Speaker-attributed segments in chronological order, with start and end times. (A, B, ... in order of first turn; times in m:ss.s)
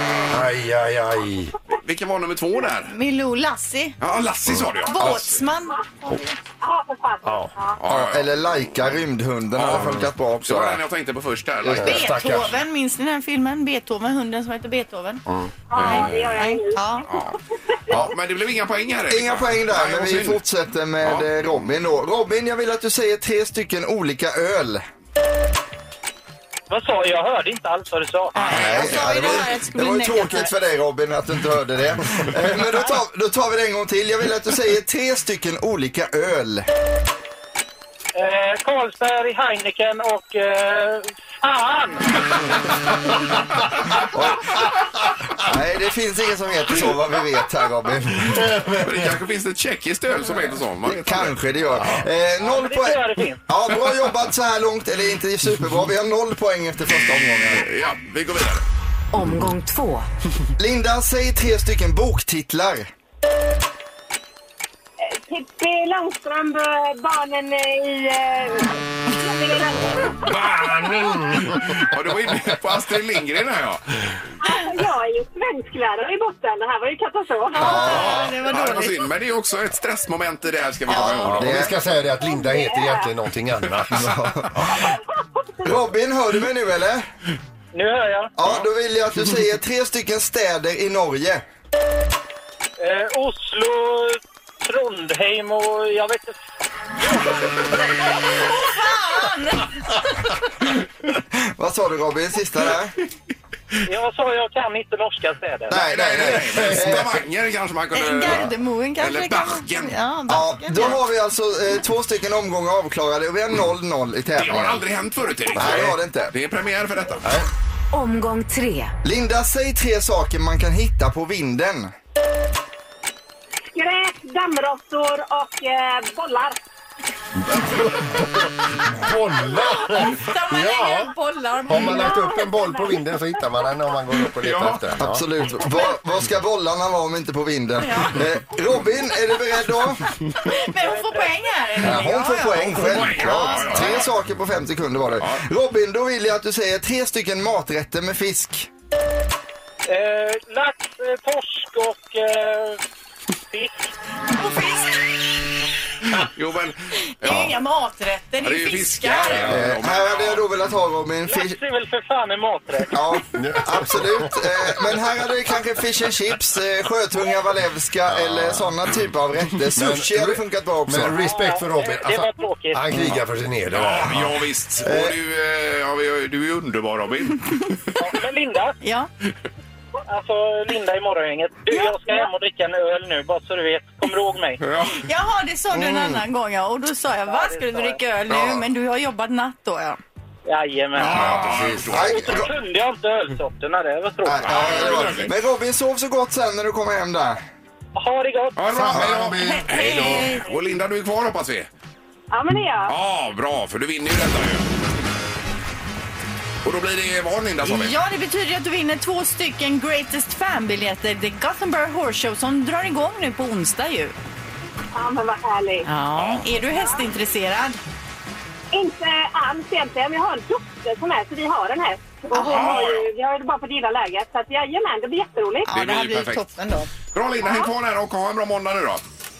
0:00.3-0:01.5 A
0:01.7-0:02.9 B
0:02.9-0:04.0 C
0:04.0-0:05.4 B
0:04.8-0:06.3 C
0:06.6-0:07.8 D
0:07.2-0:07.5 A
0:07.8-0:08.3 B
0:07.9-0:10.8 E
0:09.5-0:12.2 B
0:09.6-0:10.1 A
0:11.6-0:12.6 A
0:11.7-0:15.2 C
0:15.3-0:15.5 A
0:15.7-0:17.8 D
0:15.7-0:16.5 B
0:16.2-0:17.1 C
0:17.1-0:17.4 B
0:17.9-0:20.4 B
0:19.1-0:24.8 E
0:21.0-0:21.3 B
0:26.7-0:28.4 F
0:28.3-0:30.5 C
0:28.4-0:29.4 B
0:28.5-0:36.7 E
0:38.2-0:42.1 F
0:44.1-0:44.5 E
0:45.4-0:48.4 E
0:48.3-0:49.1 A
0:48.7-0:51.3 B
0:50.8-0:57.7 E
0:52.4-0:53.4 F
0:57.5-0:58.6 B
0:59.1-1:00.1 G
1:00.6-1:02.9 E
1:05.0-1:10.3 D
1:09.8-1:12.3 A
1:10.2-1:13.8 B
1:14.4-1:18.2 D
1:17.6-1:19.0 C
1:17.6-1:18.3 E
1:17.7-1:21.7 B
1:20.9-1:21.4 C
1:21.2-1:24.8 A
1:21.3-1:21.7 E
1:22.2-1:23.1 D
1:24.0-1:24.7 E
1:24.9-1:25.6 D
1:25.6-1:27.0 E
1:27.7-1:28.3 F
1:28.4-1:31.4 E
1:32.8-1:36.4 F
1:38.2-1:40.3 C
1:41.2-1:42.9 E
1:43.8-1:45.8 F
1:45.7-1:47.2 E
1:45.7-1:49.9 B
1:46.2-1:47.2 A
1:47.9-1:51.0 C
1:50.3-1:54.8 E
1:54.3-1:57.2 B
1:55.5-1:56.3 E
1:55.5-1:55.9 A
1:57.9-1:58.9 G
1:59.0-2:01.9 E
2:03.7-2:06.6 D
2:07.4-2:11.1 A
2:09.9-2:12.2 C
2:11.7-2:15.2 A
2:11.9-2:13.0 D
2:14.3-2:14.9 B
2:15.0-2:20.0 E
2:17.8-2:18.2 C
2:20.3-2:23.8 C
2:20.8-2:21.4 F
2:21.8-2:28.7 E
2:22.8-2:24.0 B
2:29.9-2:32.8 F
2:34.4-2:35.1 C
2:36.2-2:37.5 B
2:37.2-2:39.5 C
2:38.4-2:40.4 B
2:39.3-2:39.8 A
2:39.4-2:41.6 E
2:41.3-2:42.9 F
2:42.9-2:51.2 E
2:43.3-2:44.6 A
2:48.1-2:48.7 A
2:49.7-2:54.4 A
2:51.2-2:53.1 F
2:53.7-2:57.7 B
2:54.8-2:55.1 E
2:58.0-2:58.8 F
2:58.8-2:59.1 C
3:00.1-3:04.6 F
3:04.6-3:05.0 B
3:05.0-3:10.0 C
3:07.3-3:08.0 F
3:08.3-3:08.6 B
3:10.5-3:11.4 F
3:11.0-3:12.4 A
3:11.0-3:12.4 B
3:11.8-3:12.5 E
3:12.0-3:14.9 F
3:14.2-3:17.4 E
3:14.3-3:15.3 B
3:18.0-3:18.8 F
3:18.6-3:21.7 B
3:18.7-3:20.3 A
3:19.4-3:20.4 C
3:22.3-3:22.9 D
3:22.9-3:24.6 B
3:26.6-3:28.0 B
3:27.6-3:34.1 C
3:34.9-3:35.9 D
3:35.8-3:37.8 C
3:36.2-3:36.4 B
3:36.7-3:37.0 D
3:38.7-3:45.7 D
3:42.3-3:42.8 C
3:42.4-3:43.1 B
3:45.6-3:46.9 C
3:45.7-3:46.4 B
3:47.1-3:49.0 B
3:47.4-3:47.7 D